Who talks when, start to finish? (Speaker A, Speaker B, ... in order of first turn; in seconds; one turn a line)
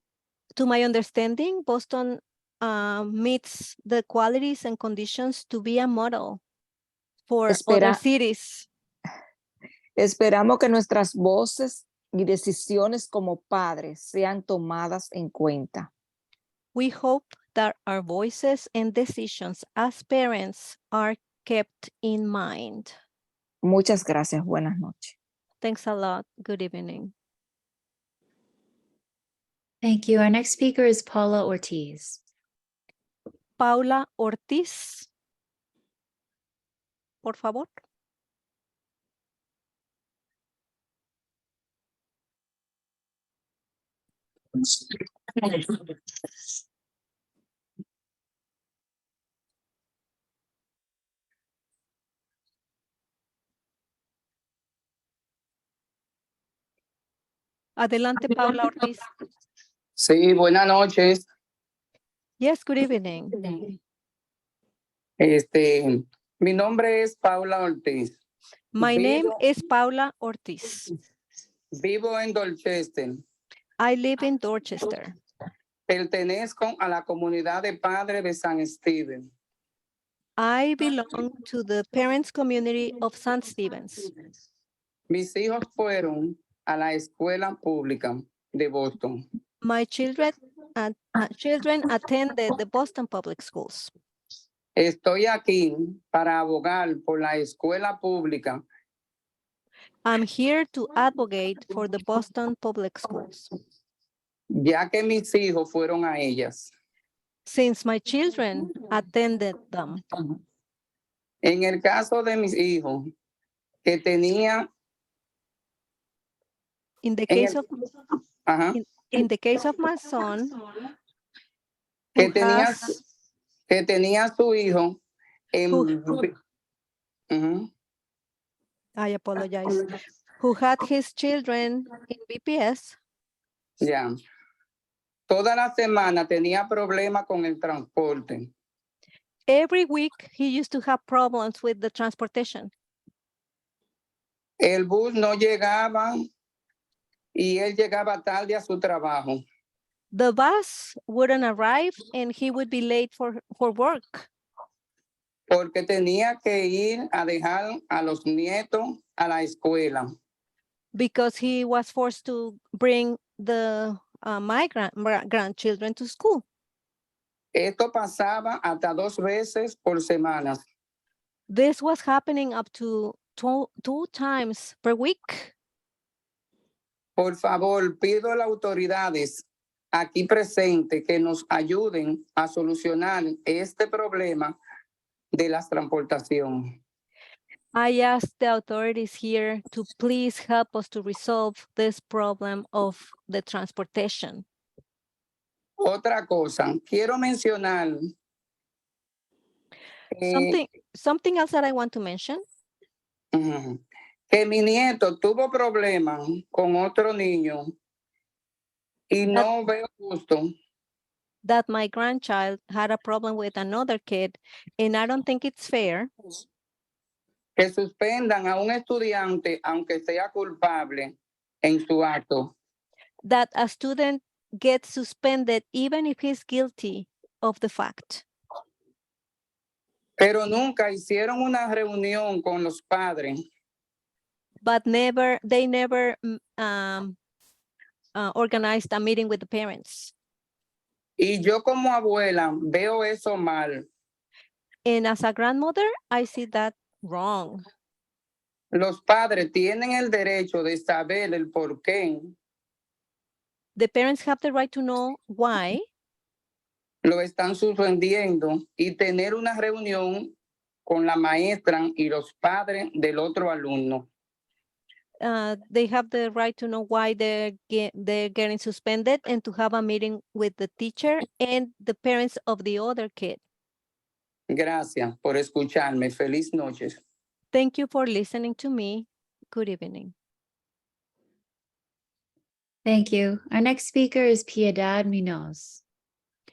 Speaker A: 0.6-6.4
Speaker A: 7.3-8.7
Speaker B: 7.5-8.0
Speaker B: 10.0-15.9
Speaker A: 16.8-22.9
Speaker B: 23.6-25.2
Speaker A: 25.6-27.1
Speaker C: 29.8-32.2
Speaker A: 33.6-35.1
Speaker A: 37.2-37.8
Speaker A: 57.8-59.1
Speaker D: 60.0-61.3
Speaker A: 62.4-63.7
Speaker D: 65.2-68.1
Speaker A: 68.7-70.9
Speaker D: 68.8-69.4
Speaker D: 71.8-73.2
Speaker A: 73.8-75.1
Speaker D: 75.9-79.3
Speaker A: 80.4-84.1
Speaker D: 85.1-89.2
Speaker A: 89.6-93.9
Speaker D: 94.8-98.6
Speaker A: 100.0-103.5
Speaker D: 104.5-106.7
Speaker A: 107.5-110.0
Speaker D: 111.5-113.1
Speaker D: 113.8-114.6
Speaker A: 117.0-117.7
Speaker D: 117.3-117.6
Speaker D: 118.5-118.8
Speaker A: 118.8-120.6
Speaker A: 122.2-123.0
Speaker D: 122.2-122.9
Speaker D: 123.7-125.0
Speaker D: 125.5-126.3
Speaker A: 125.7-126.2
Speaker D: 127.3-127.7
Speaker A: 129.0-133.0
Speaker D: 133.8-134.1
Speaker D: 135.3-138.5
Speaker A: 139.5-142.7
Speaker D: 144.6-146.2
Speaker D: 147.4-149.4
Speaker A: 150.1-154.3
Speaker D: 155.5-160.1
Speaker A: 160.9-166.4
Speaker D: 167.6-170.6
Speaker A: 171.5-175.5
Speaker D: 177.2-184.5
Speaker D: 185.3-186.7
Speaker A: 187.7-194.4
Speaker D: 195.8-198.0
Speaker D: 200.1-200.6
Speaker A: 200.3-202.4
Speaker D: 203.3-207.7
Speaker D: 209.1-210.5
Speaker A: 211.4-216.1
Speaker D: 217.6-222.5
Speaker A: 223.2-228.2
Speaker D: 230.2-233.4
Speaker A: 234.6-237.2
Speaker A: 238.2-240.1
Speaker D: 241.2-243.8
Speaker A: 244.8-247.7
Speaker D: 248.7-252.3
Speaker A: 253.8-255.8
Speaker D: 257.0-260.3
Speaker D: 260.9-264.1
Speaker A: 265.2-273.4
Speaker D: 274.5-277.0
Speaker A: 277.5-280.1
Speaker C: 282.9-285.8